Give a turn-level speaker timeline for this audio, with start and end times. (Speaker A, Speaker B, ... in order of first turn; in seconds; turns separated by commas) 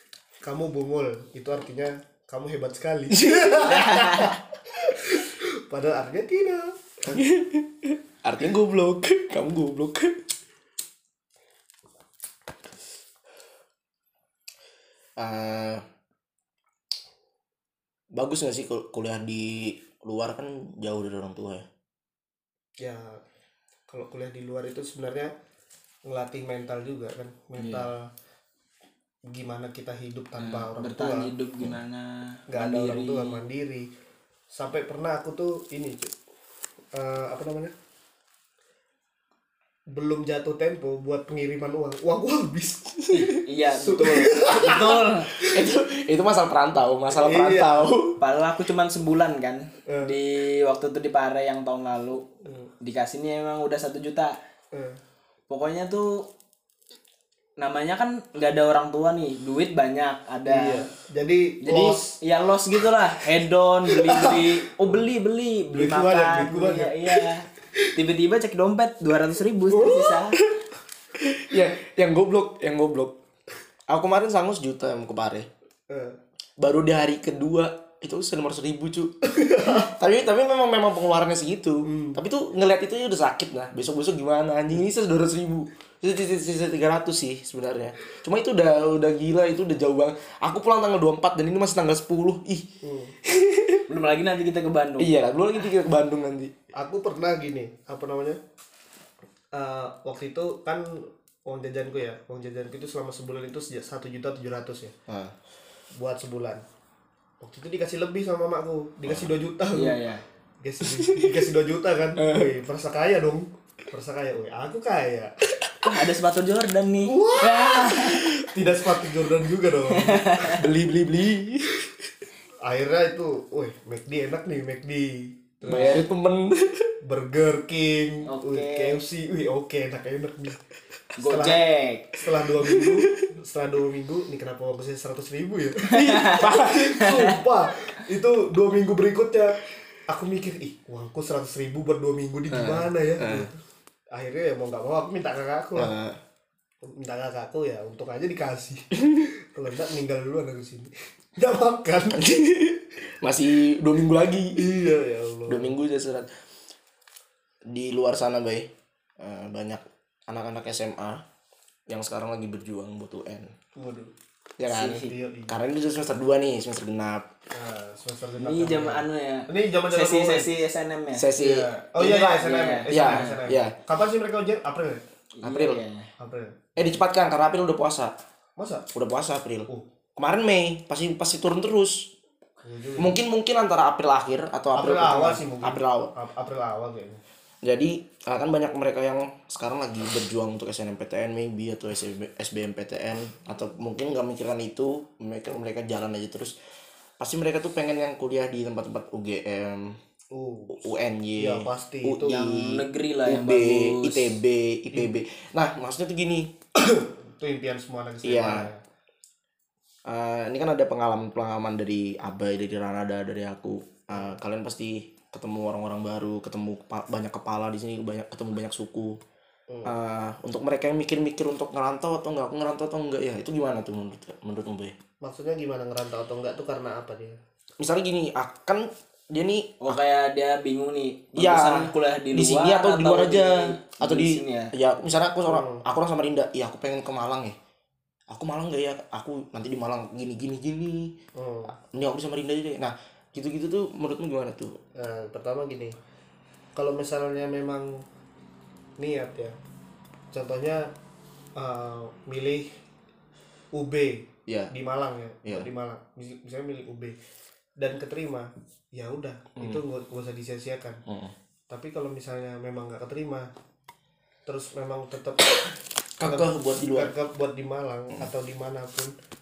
Speaker A: 0.4-6.8, Speaker B: 3.2-3.7, Speaker C: 3.6-4.3, Speaker B: 7.1-10.2, Speaker B: 15.2-15.8, Speaker B: 18.1-21.6, Speaker A: 22.8-23.2, Speaker A: 23.9-25.3, Speaker A: 26.1-28.1, Speaker C: 27.6-27.8, Speaker A: 29.3-31.3, Speaker C: 30.4-33.4, Speaker A: 32.5-33.9, Speaker A: 34.5-36.1, Speaker A: 36.9-37.7, Speaker A: 39.9-45.6, Speaker B: 43.1-43.4, Speaker C: 43.3-45.3, Speaker B: 45.4-48.2, Speaker A: 47.1-47.9, Speaker C: 48.2-52.2, Speaker A: 49.9-50.1, Speaker C: 52.8-54.4, Speaker A: 54.7-55.0, Speaker C: 55.5-56.2, Speaker C: 57.6-60.9, Speaker A: 60.5-62.1, Speaker C: 61.6-70.4, Speaker A: 63.9-65.0, Speaker A: 65.7-67.9, Speaker B: 69.7-70.5, Speaker B: 71.2-73.2, Speaker B: 73.9-75.5, Speaker A: 75.9-76.2, Speaker B: 76.6-92.7, Speaker A: 79.4-79.9, Speaker A: 81.8-82.2, Speaker A: 92.8-93.1, Speaker B: 93.2-93.8, Speaker C: 93.9-95.1, Speaker B: 95.0-96.5, Speaker A: 96.7-98.4, Speaker A: 99.5-104.9, Speaker B: 105.1-105.3, Speaker A: 105.9-106.6, Speaker A: 107.4-110.0, Speaker C: 109.7-110.2, Speaker A: 110.6-115.3, Speaker B: 110.9-111.4, Speaker B: 112.2-112.5, Speaker C: 115.8-118.3, Speaker A: 117.0-120.5, Speaker B: 118.1-118.5, Speaker C: 119.9-120.6, Speaker B: 120.5-121.9, Speaker A: 122.6-126.0, Speaker B: 125.7-126.9, Speaker C: 125.7-126.0, Speaker A: 127.0-130.6, Speaker C: 128.2-129.0, Speaker C: 131.2-132.2, Speaker A: 131.2-131.6, Speaker A: 132.2-143.6, Speaker B: 132.6-133.3, Speaker C: 135.9-136.5, Speaker B: 135.9-137.2, Speaker C: 137.0-137.3, Speaker B: 142.5-143.5, Speaker A: 144.1-145.9, Speaker B: 145.8-146.2, Speaker A: 146.8-152.3, Speaker B: 152.1-154.6, Speaker A: 154.6-155.7, Speaker B: 155.5-156.3, Speaker B: 157.7-161.2, Speaker B: 161.9-163.5, Speaker A: 163.8-164.1, Speaker B: 164.6-167.3, Speaker C: 164.7-165.1, Speaker A: 164.9-165.5, Speaker A: 167.5-170.6, Speaker C: 168.4-171.3, Speaker B: 171.2-172.3, Speaker A: 171.4-175.0, Speaker C: 172.0-173.4, Speaker B: 172.9-173.8, Speaker C: 175.4-176.1, Speaker B: 175.4-175.8, Speaker A: 176.2-176.7, Speaker B: 176.8-178.1, Speaker A: 178.6-178.9, Speaker B: 178.9-182.1, Speaker A: 182.6-183.2, Speaker B: 183.0-186.1, Speaker A: 184.7-187.2, Speaker B: 187.6-196.5, Speaker B: 197.2-200.0, Speaker A: 200.3-200.8, Speaker B: 200.7-206.5, Speaker A: 201.4-202.4, Speaker C: 202.2-204.3, Speaker A: 206.7-208.8, Speaker B: 208.2-208.7, Speaker B: 210.1-219.2, Speaker B: 219.8-224.9, Speaker A: 225.2-227.4, Speaker B: 227.8-230.0, Speaker C: 229.8-234.7, Speaker B: 231.3-237.6, Speaker A: 235.4-235.8, Speaker B: 238.3-241.1, Speaker A: 241.3-241.7, Speaker B: 241.7-244.8, Speaker A: 244.9-246.0, Speaker A: 246.7-248.0, Speaker A: 249.0-249.6, Speaker A: 250.3-250.9, Speaker A: 251.6-252.7, Speaker A: 253.7-257.1, Speaker B: 254.5-254.7, Speaker A: 257.8-261.0, Speaker B: 259.6-259.8, Speaker B: 261.1-261.3, Speaker A: 261.7-263.5, Speaker A: 264.4-265.6, Speaker B: 266.2-267.1, Speaker A: 266.2-269.1